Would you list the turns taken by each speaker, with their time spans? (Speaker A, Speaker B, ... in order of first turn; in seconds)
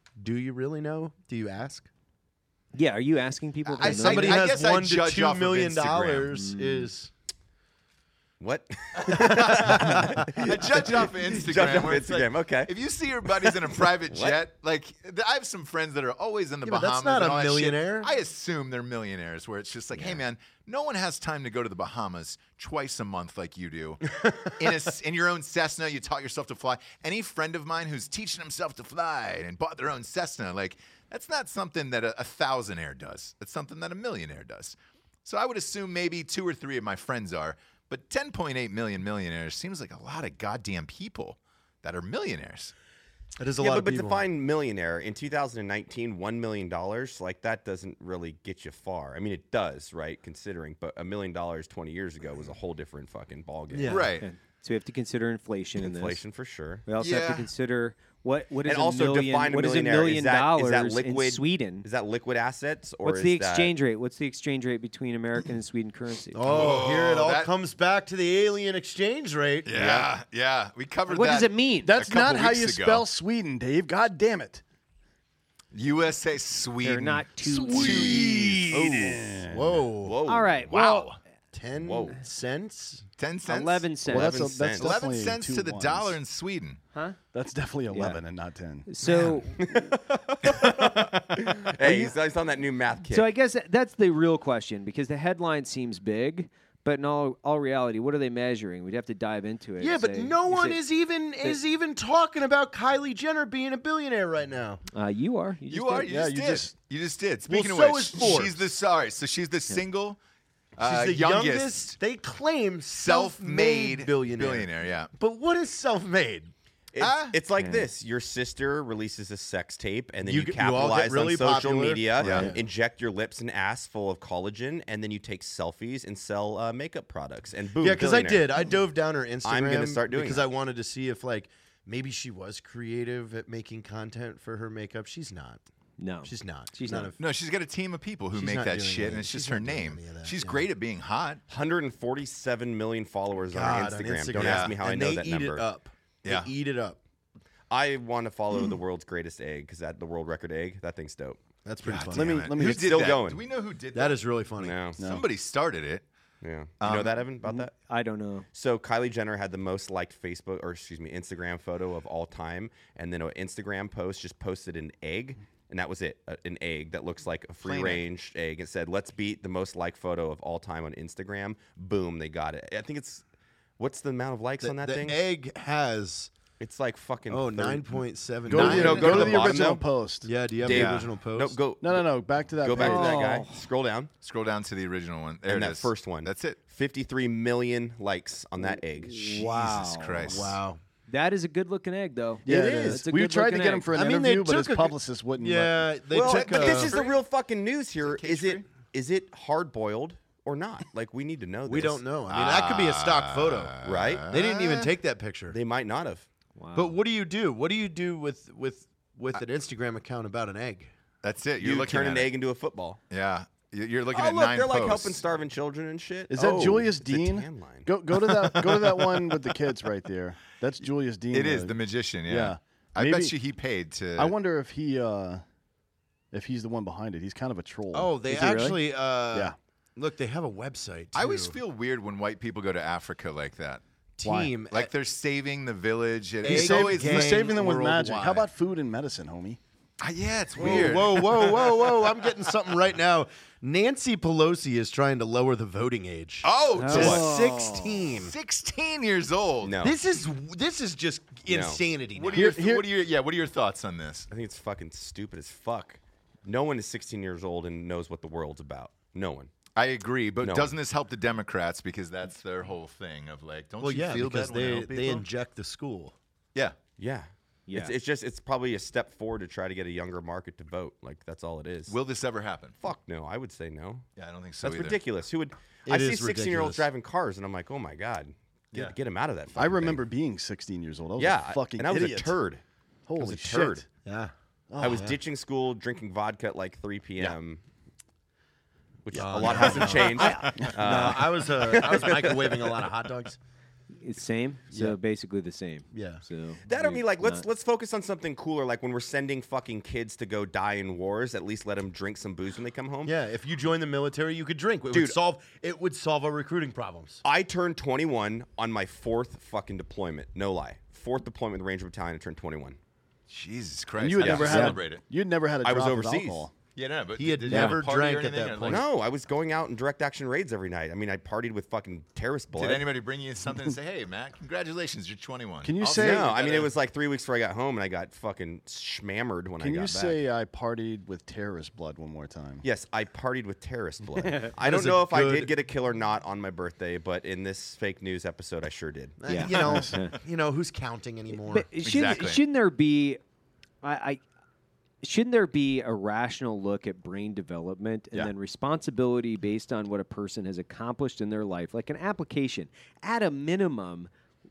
Speaker A: 0.2-1.9, 3.8-7.1, 9.3-10.2, 16.6-18.1, 43.4-44.3, 53.7-54.1, 66.3-70.0, 79.5-80.2, 81.5-83.0, 99.8-104.8, 107.5-108.6, 110.8-116.5, 120.2-122.6, 127.8-135.6, 136.2-137.2, 138.3-140.6, 143.5-147.0, 151.6-152.5, 153.9-154.8, 167.6-168.0, 174.6-176.3, 177.3-179.7, 180.2-181.6, 190.3-190.8, 192.5-193.0, 193.9-197.0, 201.7-205.6, 206.7-210.9, 227.9-231.6, 234.2-234.9, 236.4-238.4, 240.6-248.3, 249.8-252.5, 263.8-266.1, 275.9-276.9, 284.0-284.3, 284.8-285.1, 289.1-293.4, 295.9-296.2, 303.0-307.2, 317.2-318.9, 334.6-335.5, 339.2-341.7
Speaker B: 2.7-4.4, 6.3-6.9, 54.2-56.2, 56.9-61.9, 63.0-66.4, 71.1-71.9, 76.8-78.5, 80.3-81.1, 83.5-84.5, 87.9-88.2, 88.9-89.6, 93.1-100.8, 104.9-106.1, 117.5-117.9, 136.0-137.1, 157.4-158.4, 182.7-183.7, 188.9-190.5, 191.1-193.9, 206.6-206.9, 228.3-228.8, 246.8-247.8, 267.7-267.9, 290.0-290.6, 294.0-297.4, 314.5-314.7, 317.5-317.8, 334.2-334.5, 339.3-340.1, 341.4-343.2, 343.8-344.2, 345.0-354.1
Speaker C: 3.7-6.3, 9.1-42.7, 53.9-54.2, 57.0-57.5, 66.4-67.5, 69.6-73.0, 75.7-78.7, 80.7-81.2, 83.2-83.9, 84.8-86.8, 89.0-89.4, 105.7-110.2, 110.8-112.0, 112.9-115.1, 117.0-117.4, 122.2-122.5, 137.2-141.4, 144.3-144.7, 146.2-146.5, 151.8-154.3, 155.0-156.0, 156.8-157.2, 178.5-179.3, 180.7-181.0, 184.2-186.6, 189.3-190.6, 196.2-197.2, 198.0-198.7, 202.3-204.9, 211.2-212.3, 213.1-215.2, 218.4-219.3, 221.3-224.3, 231.1-233.8, 234.7-237.5, 240.0-242.1, 246.4-247.3, 248.0-249.8, 252.1-254.3, 259.8-265.3, 271.9-272.8, 274.2-275.0, 313.3-315.0, 316.7-318.8, 322.5-326.7, 341.8-342.4
Speaker D: 8.4-12.7, 13.2-14.4, 43.6-54.0, 55.8-56.9, 58.6-63.7, 80.0-80.5, 81.8-82.2, 84.1-84.9, 89.6-93.3, 116.9-128.5, 129.4-130.5, 141.5-145.7, 147.7-151.4, 152.6-153.4, 154.6-155.0, 156.4-157.7, 158.5-173.2, 173.8-175.2, 176.6-179.8, 180.6-182.0, 182.6-184.1, 185.5-189.3, 196.1-202.0, 203.8-204.3, 205.5-206.3, 211.6-213.0, 214.1-217.9, 246.9-247.2, 249.6-250.0, 251.5-251.8, 254.3-259.5, 260.4-260.7, 267.0-271.9, 272.8-274.0, 274.6-280.0, 281.2-282.6, 283.2-283.9, 284.8-287.6, 289.0-292.8, 296.6-303.1, 304.9-305.2, 307.2-312.8, 314.2-314.7, 315.6-316.5, 318.6-322.8, 325.9-330.2, 332.6-339.8
Speaker E: 71.8-74.6, 77.7-79.9, 84.1-86.2, 87.3-88.9, 106.1-106.7, 152.1-153.1, 155.0-155.2, 178.5-180.8, 181.8-183.2, 192.4-195.9, 216.3-221.7, 222.3-223.3, 224.2-225.4, 226.3-228.1, 234.2-234.5, 236.4-239.6, 252.3-252.9, 279.6-282.3, 283.1-283.8, 284.7-285.1, 314.0-316.5, 325.6-326.3, 329.6-332.6